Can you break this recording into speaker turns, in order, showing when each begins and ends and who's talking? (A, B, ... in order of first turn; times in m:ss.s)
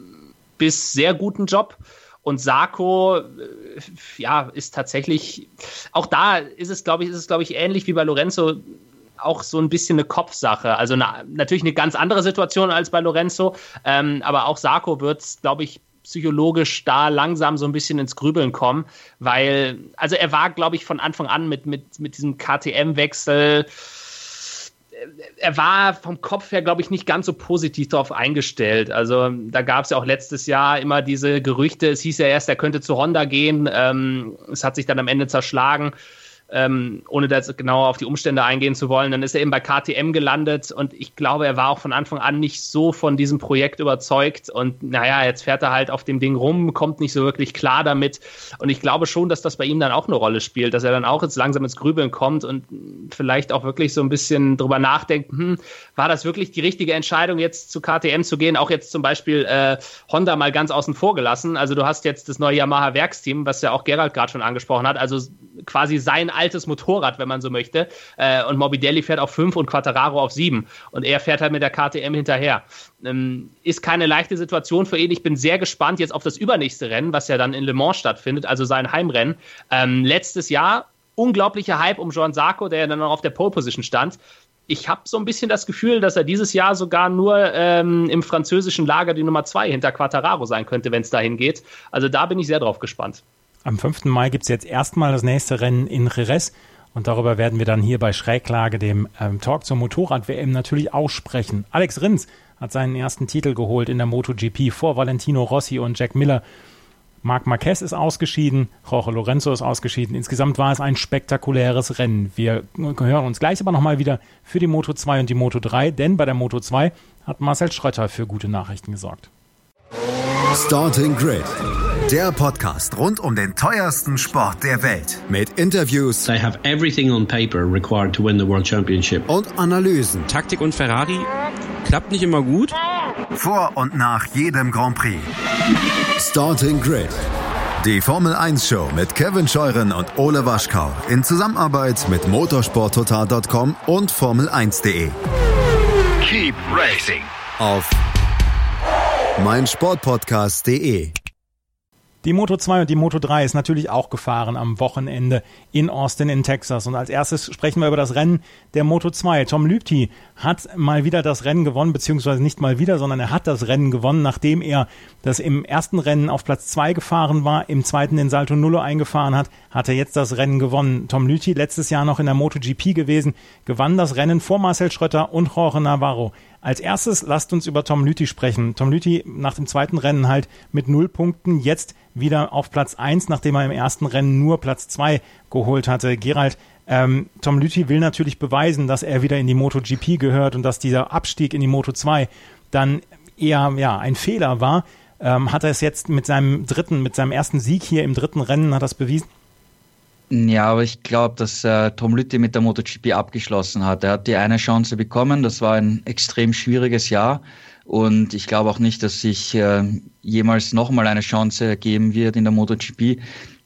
0:00.6-0:08.6 A
0:09.2-0:23.7 A
0:24.3-0:24.5 A
0:25.4-0:35.9 A
0:36.5-1:33.2 A
1:33.6-1:46.4 B
1:47.2-1:59.3 B
2:00.5-2:01.5 C
2:02.1-2:06.2 C
2:06.2-2:09.3 D
2:09.3-2:10.2 C
2:10.2-2:11.3 E
2:11.8-2:12.8 E
2:13.3-2:15.3 C
2:16.2-2:17.2 C
2:17.8-2:25.2 C
2:26.2-2:28.0 C
2:29.4-2:31.1 C
2:32.2-3:19.3 B
3:20.3-3:33.2 F